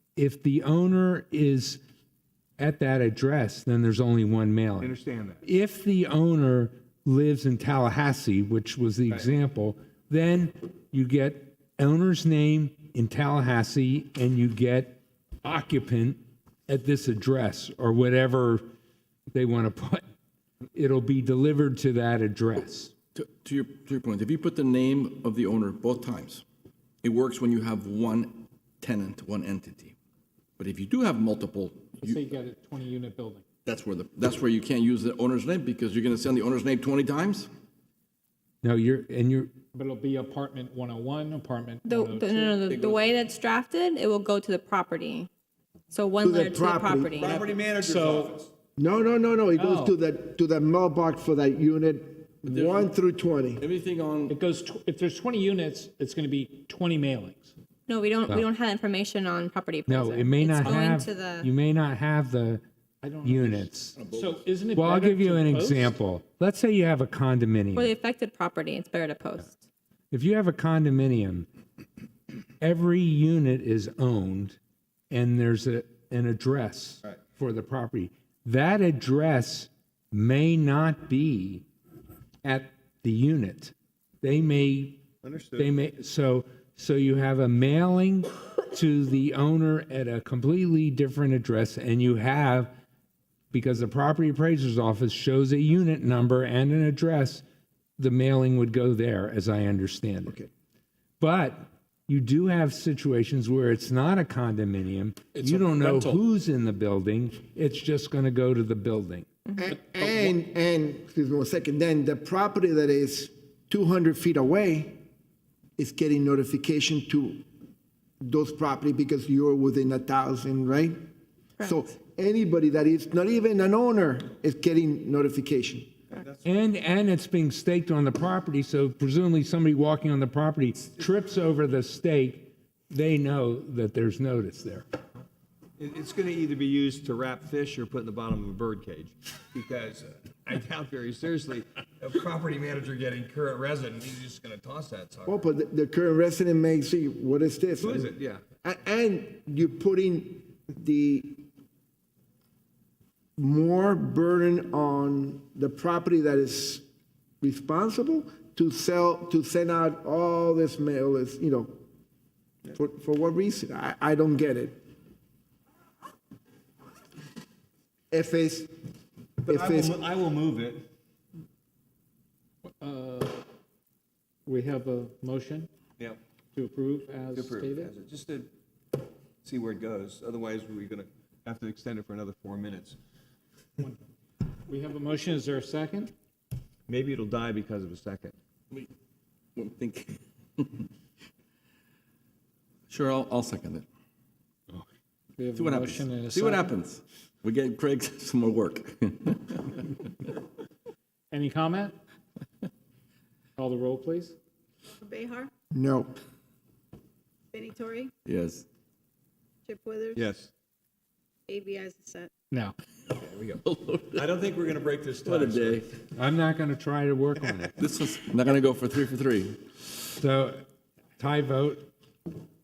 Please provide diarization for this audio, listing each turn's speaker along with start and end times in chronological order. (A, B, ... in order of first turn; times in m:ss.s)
0:00.2-0:01.8 A
0:02.6-0:18.6 A
0:04.8-0:05.4 B
0:19.3-0:20.0 A
0:20.7-0:22.9 A
0:23.2-0:26.4 C
0:27.0-0:30.0 C
0:30.6-0:32.3 C
0:32.0-0:33.4 D
0:33.6-0:37.5 C
0:38.6-0:39.5 A
0:39.7-0:42.7 D
0:41.8-0:45.3 E
0:42.7-0:43.1 C
0:45.9-0:47.3 E
0:46.2-0:47.2 F
0:47.2-0:48.5 B
0:47.3-0:48.4 D
0:48.8-0:53.6 F
0:49.6-0:50.0 D
0:52.5-0:52.9 C
0:53.6-0:54.4 C
0:54.3-0:57.5 D
0:57.9-1:01.5 E
0:59.9-1:02.6 A
1:03.0-1:06.0 D
1:03.2-1:04.0 A
1:04.0-1:04.4 C
1:04.7-1:08.0 A
1:07.8-1:09.6 E
1:10.1-1:11.5 A
1:12.6-1:14.6 A
1:15.1-1:21.6 A
1:22.4-1:25.0 A
1:25.2-1:25.7 B
1:25.6-1:32.7 A
1:33.5-1:37.4 A
1:38.0-1:40.4 A
1:41.2-1:49.3 A
1:45.4-1:46.0 D
1:49.6-1:55.0 F
1:55.8-1:57.4 F
1:58.2-2:01.0 F
2:01.6-2:05.9 F
2:06.2-2:06.5 B
2:06.4-2:14.8 A
2:15.8-2:25.4 B
2:25.3-2:28.1 F
2:27.8-2:28.4 B
2:28.6-2:31.4 F
2:33.4-2:36.8 F
2:37.4-2:41.8 F
2:42.7-2:44.8 F
2:48.1-2:48.7 F
2:49.4-2:50.8 B
2:49.5-2:50.0 F
2:52.8-2:53.4 D
2:54.5-2:55.7 D
2:56.6-2:57.9 D
2:57.3-2:58.5 B
2:59.4-3:03.0 B
3:04.7-3:06.1 D
3:06.9-3:08.4 B
3:09.6-3:10.9 C
3:12.9-3:13.9 C
3:15.4-3:16.8 D
3:15.5-3:20.3 C
3:21.3-3:22.0 D
3:23.6-3:24.4 D
3:24.9-3:25.5 G
3:25.7-3:26.2 F
3:27.5-3:28.1 G
3:28.3-3:28.7 C
3:29.7-3:30.3 G
3:30.1-3:30.5 B
3:31.5-3:32.3 G
3:32.5-3:32.8 D
3:33.1-3:33.6 B
3:33.6-3:34.2 C
3:34.1-3:35.9 B
3:35.2-3:35.9 C
3:36.2-3:37.8 A
3:37.8-3:39.6 C
3:40.2-3:40.6 A
3:41.2-3:41.9 A